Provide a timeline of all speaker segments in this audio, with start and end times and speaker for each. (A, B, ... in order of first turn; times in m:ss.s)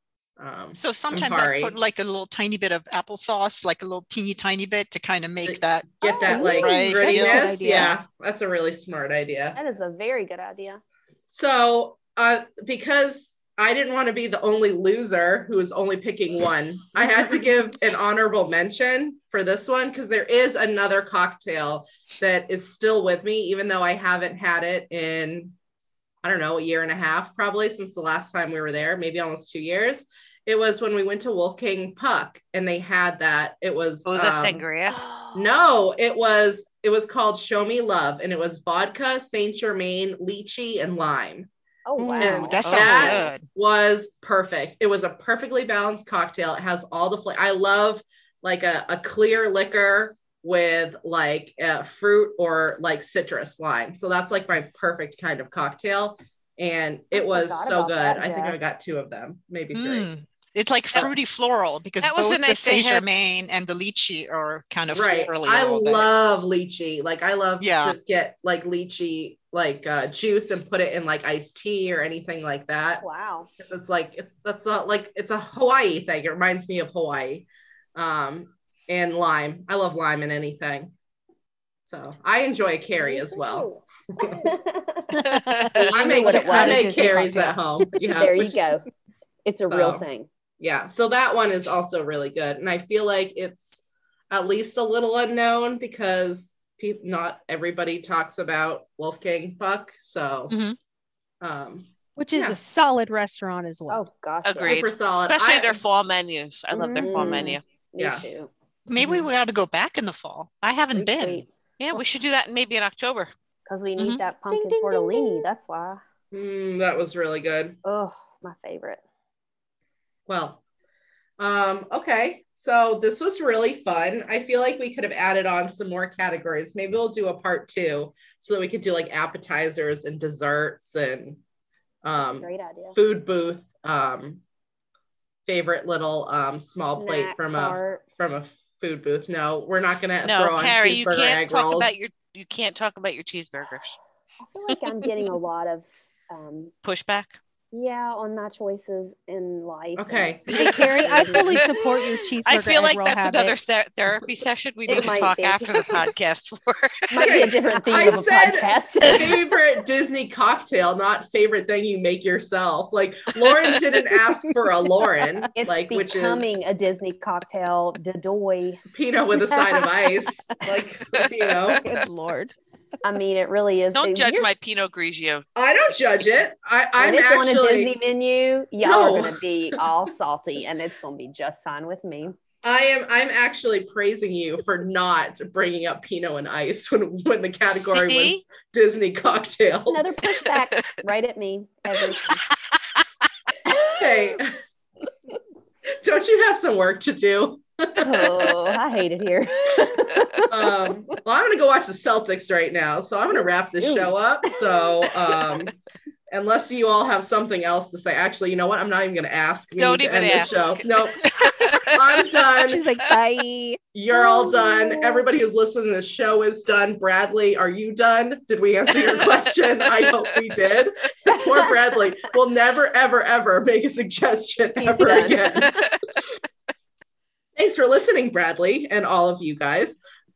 0:00.4-0:01.8 A
0:00.8-0:08.0 B
0:05.5-0:09.6 A
0:06.0-0:06.6 C
0:06.3-0:08.0 D
0:09.6-0:10.8 C
0:11.3-0:25.5 A
0:26.2-0:34.6 A
0:34.1-0:35.0 E
0:34.9-0:35.5 C
0:35.4-0:41.5 A
0:41.9-0:42.6 C
0:42.0-0:42.4 D
0:42.2-0:43.4 B
0:42.2-1:00.1 A
0:42.6-0:43.3 E
0:57.1-0:58.7 C
0:59.7-1:06.1 B
1:02.0-1:03.0 E
1:04.9-1:13.0 A
1:07.6-1:08.0 B
1:13.0-1:13.5 C
1:13.6-1:20.9 A
1:21.9-1:24.4 A
1:23.0-1:25.2 C
1:25.1-1:27.6 D
1:25.2-1:25.9 E
1:25.9-1:28.7 A
1:25.9-1:26.9 C
1:28.2-1:28.9 C
1:29.4-1:30.3 C
1:29.7-1:30.1 A
1:30.6-1:40.6 A
1:40.5-1:40.8 B
1:41.4-1:42.6 A
1:42.2-1:44.0 D
1:43.9-1:44.9 C
1:44.4-1:47.6 E
1:44.6-1:45.8 A
1:46.7-1:48.5 C
1:47.2-1:47.4 A
1:48.0-1:48.3 A
1:48.9-1:51.4 B
1:49.0-1:49.3 A
1:50.9-1:51.5 C
1:51.8-1:53.3 E
1:53.7-1:56.0 C
1:54.5-1:55.5 D
1:56.3-1:57.8 A
1:57.8-1:59.0 C
2:00.3-2:00.6 A
2:01.4-2:11.4 A
2:12.0-2:14.4 A
2:12.4-2:13.0 C
2:15.5-2:22.0 A
2:16.9-2:18.2 C
2:20.2-2:24.0 E
2:24.4-2:26.7 C
2:26.8-2:27.4 E
2:27.7-2:32.1 C
2:30.0-2:31.5 A
2:30.5-2:33.5 D
2:32.5-2:37.4 E
2:34.9-2:36.0 C
2:37.1-2:39.4 C
2:37.2-2:46.6 A
2:45.6-2:48.8 C
2:48.9-2:51.8 A
2:51.8-2:52.5 D
2:53.0-2:54.5 C
2:54.0-2:55.4 E
2:55.6-2:57.9 A
2:57.0-3:02.4 C
2:58.8-2:59.4 A
3:02.6-3:10.2 A
3:07.9-3:08.4 E
3:09.9-3:12.4 C
3:12.7-3:13.0 E
3:13.7-3:14.4 C
3:14.0-3:14.6 A
3:16.0-3:18.6 A
3:18.0-3:20.5 C
3:20.5-3:25.8 A
3:23.8-3:25.1 C
3:26.3-3:32.8 A
3:29.8-3:32.2 E
3:32.6-3:33.8 D
3:33.9-3:45.9 A
3:34.1-3:35.2 C
3:44.8-3:45.7 C
3:47.6-3:50.0 A